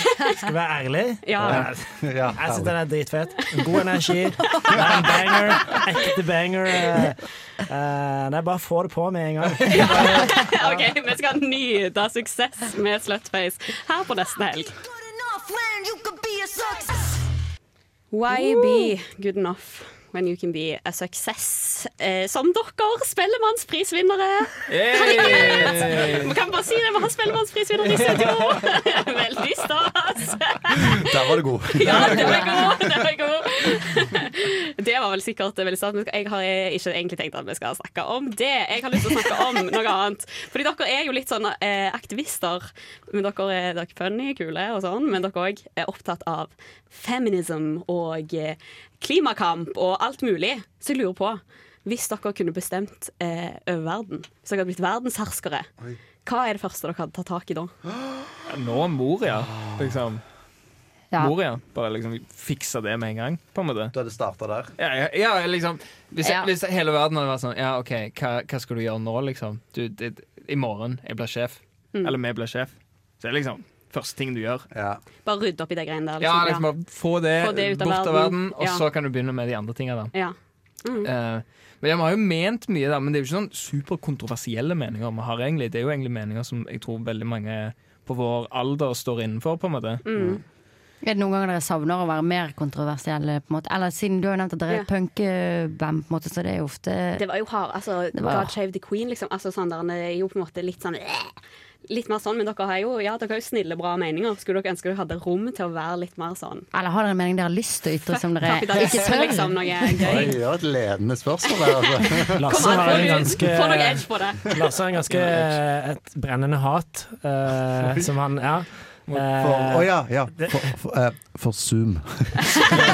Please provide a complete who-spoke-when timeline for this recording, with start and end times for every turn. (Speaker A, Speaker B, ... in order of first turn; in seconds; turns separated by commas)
Speaker A: 0.3-10.8, Speaker B: 1.2-1.7, Speaker C: 1.4-2.7, Speaker B: 9.7-14.8, Speaker B: 18.1-55.7, Speaker D: 24.7-26.3, Speaker C: 30.8-33.1, Speaker B: 56.2-57.7, Speaker C: 57.9-58.3, Speaker D: 58.5-60.2, Speaker C: 59.3-60.0, Speaker D: 61.1-63.9, Speaker C: 63.9-64.7, Speaker D: 64.8-74.7, Speaker E: 66.2-66.5, Speaker C: 74.7-75.0, Speaker B: 75.2-76.7, Speaker D: 76.2-80.1, Speaker B: 77.3-78.8, Speaker B: 80.1-81.1, Speaker D: 81.0-90.0, Speaker B: 90.0-90.4, Speaker E: 91.0-97.2, Speaker B: 97.2-106.6, Speaker E: 98.1-98.5, Speaker E: 106.7-109.9, Speaker B: 108.4-110.4, Speaker C: 110.0-113.2, Speaker A: 112.4-120.6, Speaker B: 112.4-114.4, Speaker D: 115.1-115.6, Speaker C: 119.4-122.4